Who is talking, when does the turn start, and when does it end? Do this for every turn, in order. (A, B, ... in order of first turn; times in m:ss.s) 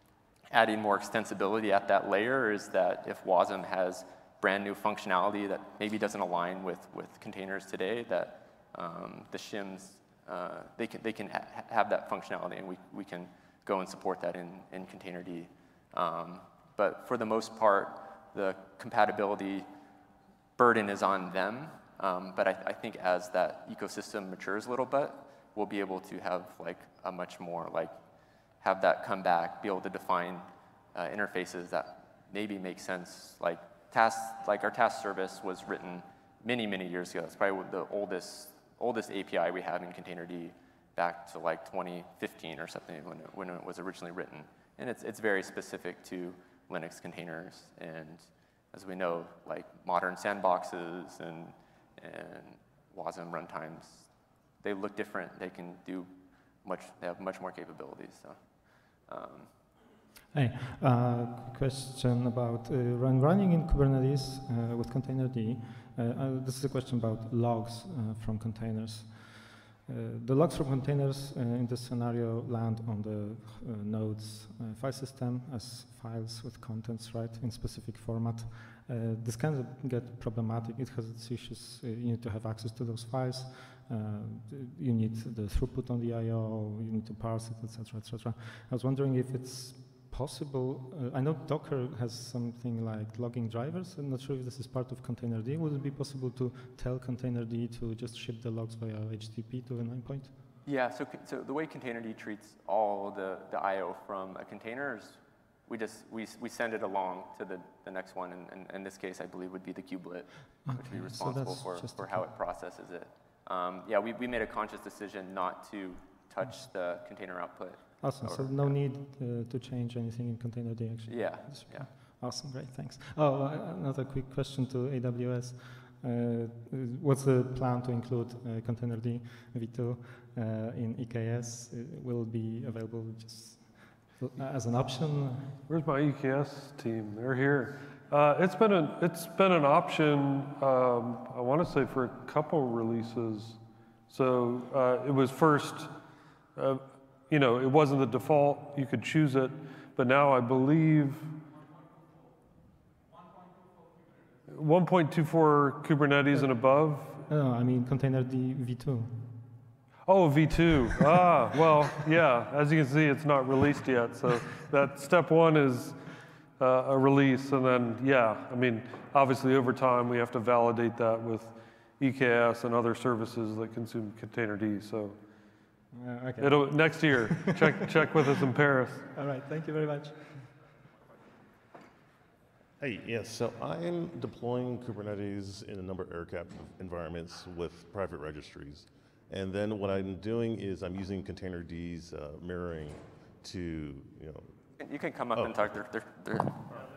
0:00.5-0:19.6 A
0:20.6-0:27.9 A
0:28.6-0:54.1 A
0:54.6-0:56.1 A
0:56.6-0:58.4 A
0:59.0-0:59.5 A
1:00.3-1:09.3 B
1:09.9-1:40.3 B
1:40.6-1:58.8 A
1:50.6-1:52.3 B
1:58.0-2:15.6 B
2:01.1-2:01.9 A
2:15.7-2:25.9 C
2:26.5-2:31.4 C
2:34.5-2:37.2 C
2:37.3-2:39.3 B
2:40.1-2:46.1 C
2:46.6-2:55.2 C
2:55.9-2:57.5 B
2:56.4-2:59.1 C
2:59.1-3:00.5 B
3:02.8-3:14.6 D
3:14.8-3:16.8 A
3:15.3-3:15.6 D